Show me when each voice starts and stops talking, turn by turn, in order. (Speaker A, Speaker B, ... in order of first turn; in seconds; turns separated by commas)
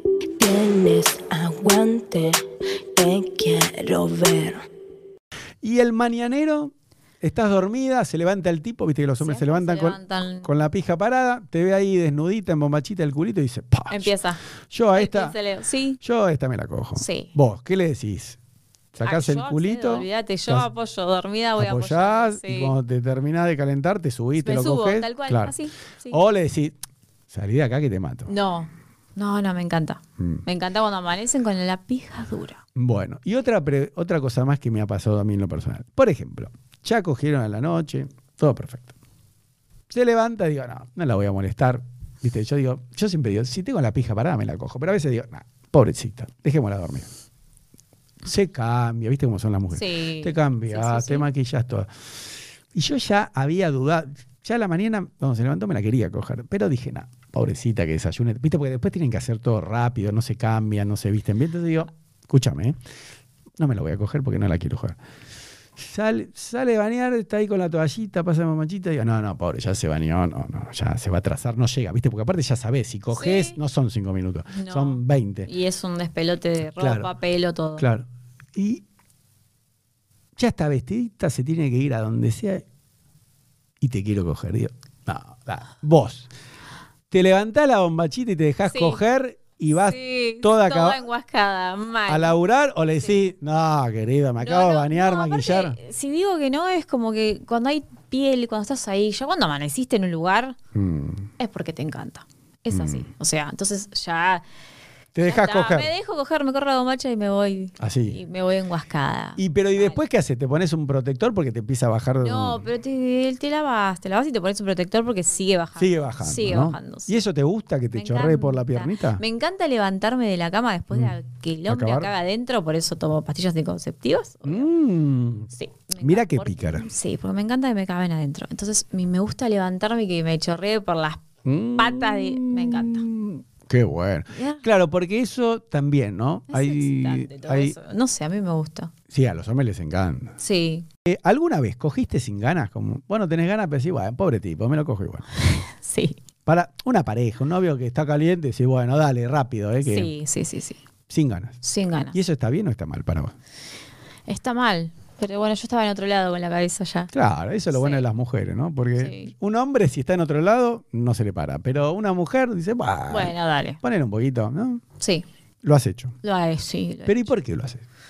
Speaker A: 0.4-2.4, Speaker A: 3.0-4.7, Speaker B: 5.6-14.1, Speaker C: 9.2-10.5, Speaker C: 13.9-16.0, Speaker B: 14.7-15.4, Speaker B: 16.0-18.4, Speaker C: 17.0-17.3, Speaker B: 18.9-20.7, Speaker C: 19.0-22.8, Speaker B: 21.6-25.6, Speaker C: 24.4-26.2, Speaker B: 26.1-26.8, Speaker B: 27.3-28.3, Speaker C: 28.3-32.6, Speaker B: 30.2-30.4, Speaker B: 32.8-38.9, Speaker B: 39.9-47.1, Speaker B: 48.2-51.9, Speaker C: 49.7-51.3, Speaker B: 52.7-62.8, Speaker B: 63.6-65.0, Speaker B: 65.8-75.5, Speaker C: 73.1-73.6, Speaker C: 74.5-77.9, Speaker B: 76.8-77.1, Speaker B: 77.8-78.8, Speaker B: 80.4-82.6, Speaker B: 83.8-86.3, Speaker B: 87.1-91.0, Speaker C: 88.7-89.0, Speaker C: 89.7-92.4, Speaker B: 92.1-95.8, Speaker C: 94.4-100.6, Speaker B: 100.7-101.3, Speaker C: 101.4-104.4, Speaker B: 102.7-103.1, Speaker B: 105.2-105.9, Speaker C: 105.2-110.0, Speaker B: 107.8-108.2, Speaker B: 109.4-112.7, Speaker C: 112.2-117.2, Speaker B: 115.8-119.2, Speaker C: 117.9-124.7, Speaker B: 121.7-122.1, Speaker B: 124.4-126.9, Speaker C: 125.5-131.2, Speaker B: 131.4-137.8, Speaker C: 131.8-133.1, Speaker C: 134.3-134.6, Speaker C: 136.5-138.9, Speaker B: 139.1-140.4, Speaker C: 140.4-140.9, Speaker B: 141.1-145.3, Speaker C: 145.6-146.2, Speaker B: 146.4-150.1, Speaker C: 149.8-150.8, Speaker B: 151.1-151.6, Speaker C: 151.6-152.2, Speaker B: 152.1-153.3, Speaker C: 154.3-157.1, Speaker B: 157.1-164.8, Speaker C: 157.7-158.1, Speaker C: 159.0-159.3, Speaker C: 163.1-163.8, Speaker C: 165.0-165.2, Speaker B: 165.6-166.2, Speaker C: 166.2-167.3, Speaker B: 167.1-167.8